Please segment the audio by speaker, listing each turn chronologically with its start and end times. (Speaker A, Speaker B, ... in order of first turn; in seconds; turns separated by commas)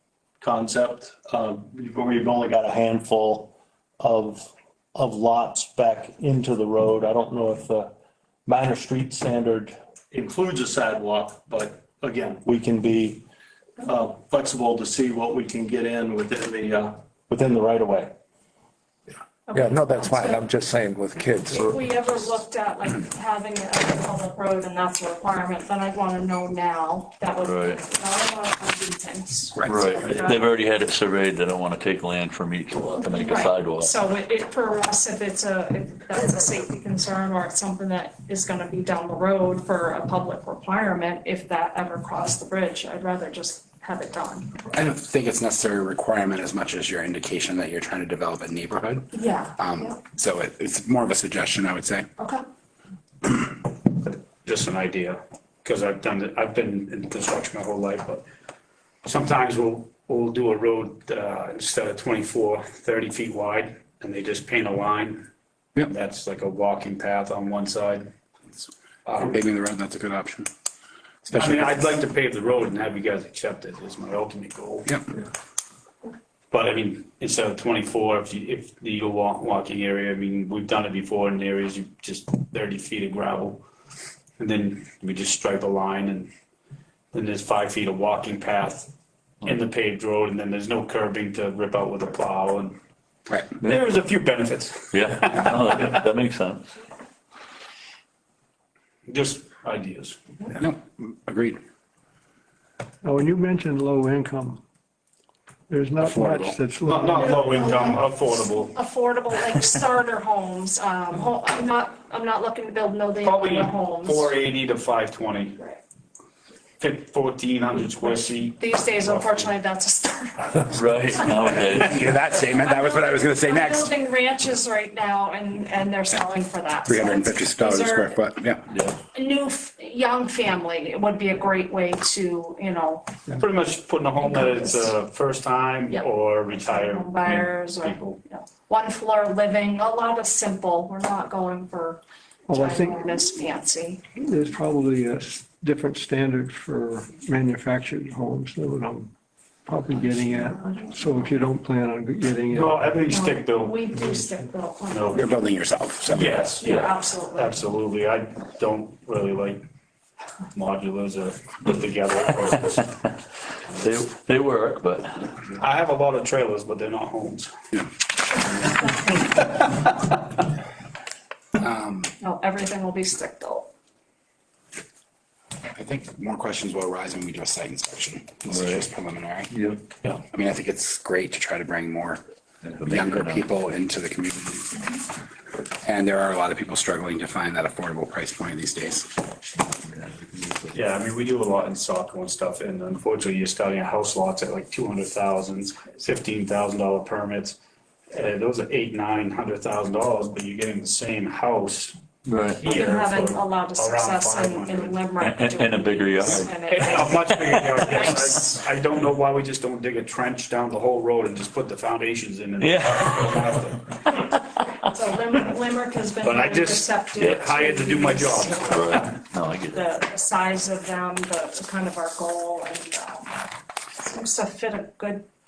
Speaker A: 0.4-7.9, Speaker A: 8.4-13.2, Speaker A: 13.8-18.1, Speaker B: 19.5-20.4, Speaker C: 19.5-21.7, Speaker B: 21.4-30.5, Speaker D: 27.4-27.8, Speaker E: 29.6-29.8, Speaker D: 29.7-33.9, Speaker B: 33.2-44.5, Speaker E: 44.7-52.1, Speaker B: 49.1-50.0, Speaker B: 52.2-52.4, Speaker F: 53.9-58.2, Speaker F: 59.0-65.3, Speaker F: 65.8-68.1, Speaker E: 69.2-70.5, Speaker E: 71.2-72.0, Speaker F: 71.3-74.9, Speaker F: 76.5-83.6, Speaker F: 84.4-86.3, Speaker F: 87.1-88.9, Speaker F: 89.4-92.8, Speaker F: 93.6-96.0, Speaker D: 94.9-96.6, Speaker F: 99.1-100.2, Speaker E: 100.5-101.6, Speaker G: 103.0-104.6, Speaker G: 105.7-107.7, Speaker E: 106.0-106.6, Speaker F: 106.8-108.8, Speaker B: 107.2-114.3, Speaker F: 113.2-115.6, Speaker F: 116.8-119.5, Speaker B: 118.5-128.2, Speaker D: 120.7-122.0, Speaker E: 121.7-123.9, Speaker E: 126.8-128.6, Speaker D: 128.7-129.0, Speaker B: 129.1-133.1, Speaker F: 133.3-138.2, Speaker B: 135.9-144.0, Speaker G: 142.5-143.1, Speaker G: 144.1-149.1, Speaker G: 149.7-152.8, Speaker F: 152.5-154.2, Speaker B: 153.1-155.3, Speaker F: 154.9-155.2, Speaker E: 155.1-156.4, Speaker F: 156.1-159.6, Speaker B: 156.3-157.5, Speaker F: 160.5-162.9, Speaker D: 163.8-165.3, Speaker F: 165.6-167.5, Speaker F: 168.3-169.9, Speaker E: 171.6-172.1, Speaker B: 172.2-173.7, Speaker E: 175.7-179.5, Speaker D: 178.5-178.8, Speaker D: 179.5-179.8, Speaker E: 180.0-182.2, Speaker D: 182.6-183.4, Speaker E: 182.8-185.0, Speaker E: 185.7-189.3, Speaker F: 190.7-197.6, Speaker F: 198.1-205.0, Speaker D: 202.2-202.6, Speaker B: 202.6-208.6, Speaker D: 205.2-208.1, Speaker F: 206.7-214.0, Speaker D: 212.6-213.4, Speaker B: 214.8-219.1, Speaker F: 216.2-219.1, Speaker D: 217.2-217.5, Speaker D: 218.7-219.8, Speaker B: 219.7-223.4, Speaker B: 224.0-225.3